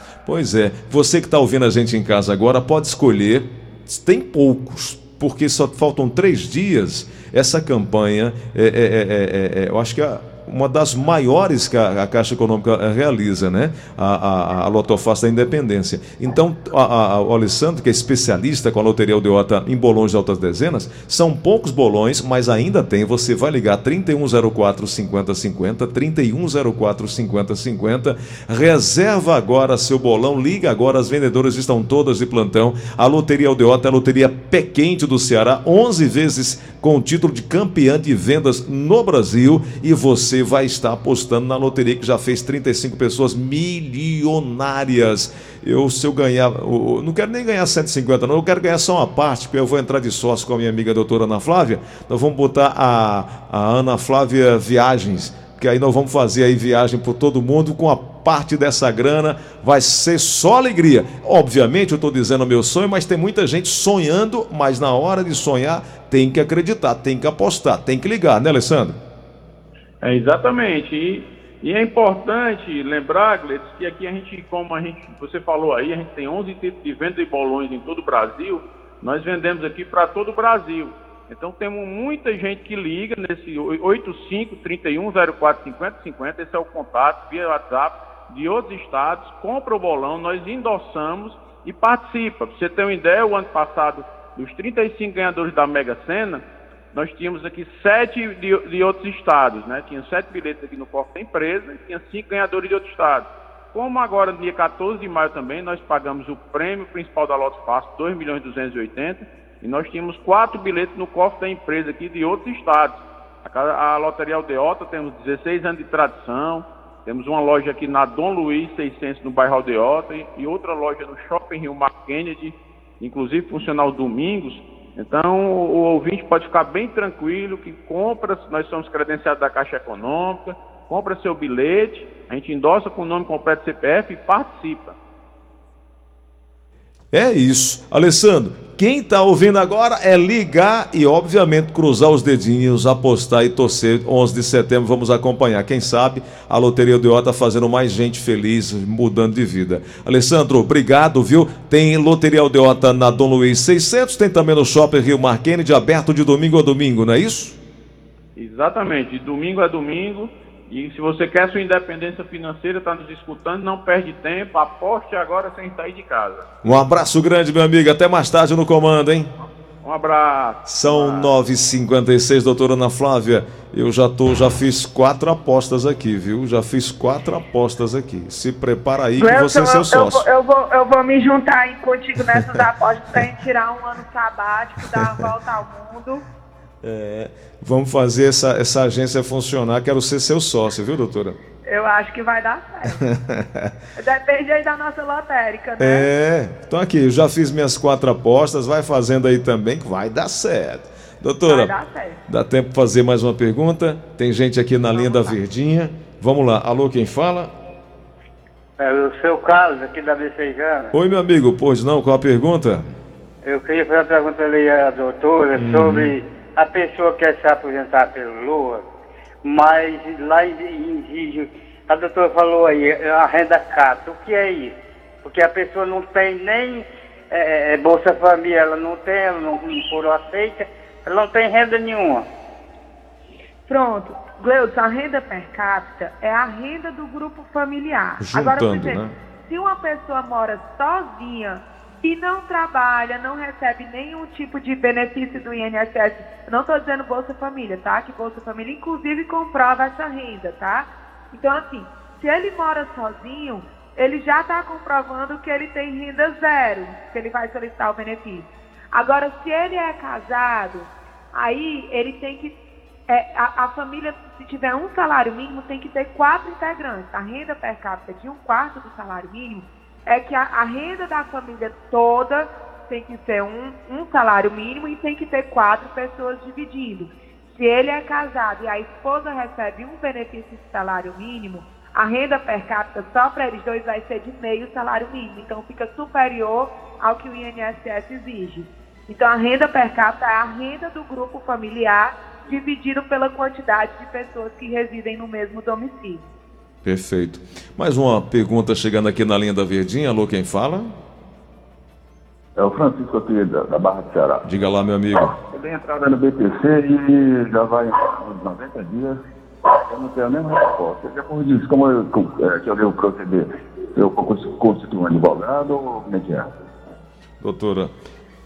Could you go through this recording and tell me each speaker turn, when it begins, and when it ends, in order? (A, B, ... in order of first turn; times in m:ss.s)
0:00.2-1:09.0 A
1:10.0-1:36.4 B
1:36.9-2:15.0 B
2:17.1-2:37.6 A
2:38.4-2:46.5 B
2:46.6-2:49.3 A
2:49.8-2:51.3 B
2:50.7-3:00.2 A
2:59.2-3:06.2 C
3:05.0-3:05.2 A
3:06.8-3:11.4 A
3:11.6-3:13.0 C
3:13.0-3:13.7 A
3:14.0-3:16.1 C
3:15.8-3:21.8 A
3:21.4-3:22.2 C
3:22.3-3:27.5 A
3:24.9-3:25.3 C
3:28.8-3:30.9 D
3:30.9-3:32.9 A
3:33.4-3:38.8 D
3:35.5-3:36.2 A
3:39.4-3:52.3 D
3:53.7-4:22.5 C
3:58.2-3:59.1 A
4:23.1-4:56.2 C
4:56.8-5:00.9 A
5:02.6-5:04.4 E
5:04.4-5:05.3 A
5:05.2-5:16.4 E
5:17.4-5:17.9 A